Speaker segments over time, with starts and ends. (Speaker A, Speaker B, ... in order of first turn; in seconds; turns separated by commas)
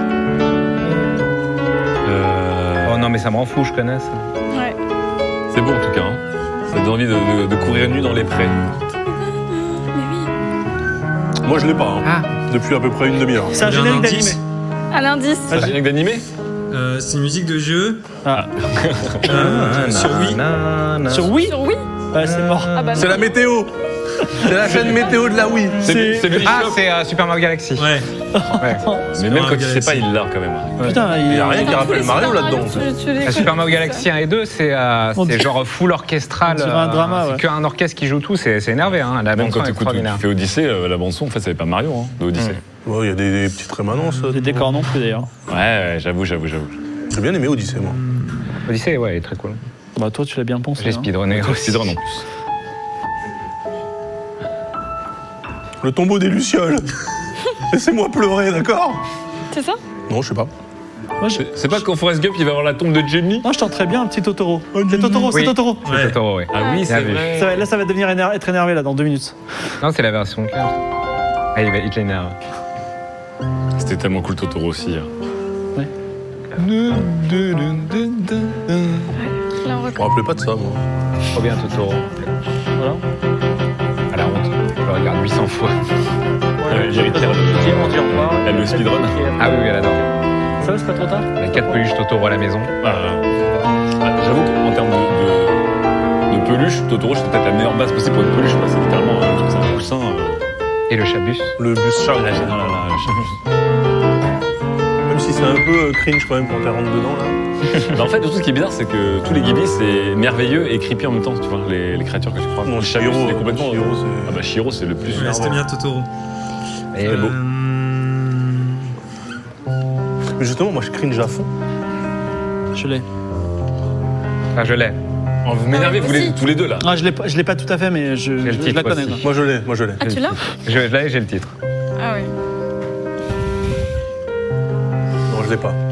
Speaker A: 2.0-3.1, Speaker B: 2.8-4.2, Speaker C: 4.5-4.8, Speaker A: 5.5-8.6, Speaker C: 9.2-10.3, Speaker D: 11.4-13.6, Speaker B: 12.0-12.3, Speaker E: 13.5-14.4, Speaker F: 13.6-14.4, Speaker C: 14.9-15.7, Speaker A: 15.5-16.2, Speaker F: 16.7-18.1, Speaker E: 18.2-18.5, Speaker A: 18.3-19.5, Speaker E: 19.2-19.9, Speaker F: 19.2-20.4, Speaker B: 19.5-21.3, Speaker E: 21.1-21.6, Speaker C: 21.4-21.9, Speaker E: 22.1-22.9, Speaker B: 22.3-22.7, Speaker C: 22.7-23.3, Speaker D: 22.9-23.7, Speaker D: 24.3-26.1, Speaker A: 24.7-24.9, Speaker E: 25.8-26.5, Speaker A: 25.8-26.8, Speaker B: 26.4-28.0, Speaker F: 27.8-28.1, Speaker E: 28.3-29.1, Speaker B: 28.6-28.9, Speaker A: 29.1-31.3, Speaker F: 29.2-30.1, Speaker E: 30.8-31.9, Speaker D: 31.2-32.9, Speaker C: 31.4-34.1, Speaker B: 33.2-40.2, Speaker E: 35.2-35.5, Speaker E: 36.5-37.4, Speaker A: 39.4-42.6, Speaker D: 42.9-44.7, Speaker F: 44.0-44.6, Speaker E: 44.3-45.3, Speaker A: 45.5-46.8, Speaker D: 47.1-48.0, Speaker F: 47.8-48.4, Speaker B: 48.7-49.6, Speaker E: 50.0-51.1, Speaker B: 50.8-52.0, Speaker A: 51.3-52.2, Speaker D: 55.8-56.9, Speaker D: 57.7-59.0, Speaker C: 59.5-59.8, Speaker D: 60.1-60.5, Speaker E: 61.2-61.8, Speaker A: 61.4-63.5, Speaker E: 63.4-65.9, Speaker D: 64.7-65.5, Speaker B: 65.3-67.4, Speaker F: 65.8-66.2, Speaker A: 66.5-67.7, Speaker C: 66.5-66.9, Speaker E: 67.3-69.3, Speaker B: 69.8-70.8, Speaker B: 71.5-72.3, Speaker A: 73.8-75.1, Speaker A: 76.6-79.1, Speaker C: 79.1-80.2, Speaker D: 80.0-80.8, Speaker B: 81.3-82.3, Speaker E: 82.8-83.0, Speaker B: 84.1-85.8, Speaker E: 86.6-90.0, Speaker A: 86.7-89.2, Speaker B: 89.4-90.0, Speaker E: 90.6-91.4, Speaker B: 91.4-92.7, Speaker A: 92.8-93.3, Speaker A: 94.0-95.7, Speaker A: 96.3-100.5, Speaker B: 100.9-101.6, Speaker D: 101.6-102.8, Speaker A: 102.1-103.3, Speaker D: 105.1-107.4, Speaker A: 107.8-115.5, Speaker D: 112.7-114.5, Speaker D: 115.0-115.6, Speaker F: 115.1-116.1, Speaker B: 116.9-117.3, Speaker F: 117.0-118.9, Speaker A: 117.1-117.3, Speaker D: 120.4-121.5, Speaker E: 122.7-123.1, Speaker B: 124.5-125.0, Speaker A: 125.5-126.9, Speaker C: 125.7-126.4, Speaker E: 126.8-129.2, Speaker B: 128.4-129.3, Speaker D: 129.2-130.1, Speaker C: 130.0-130.4, Speaker B: 130.1-131.5, Speaker C: 132.0-132.3, Speaker D: 135.3-135.8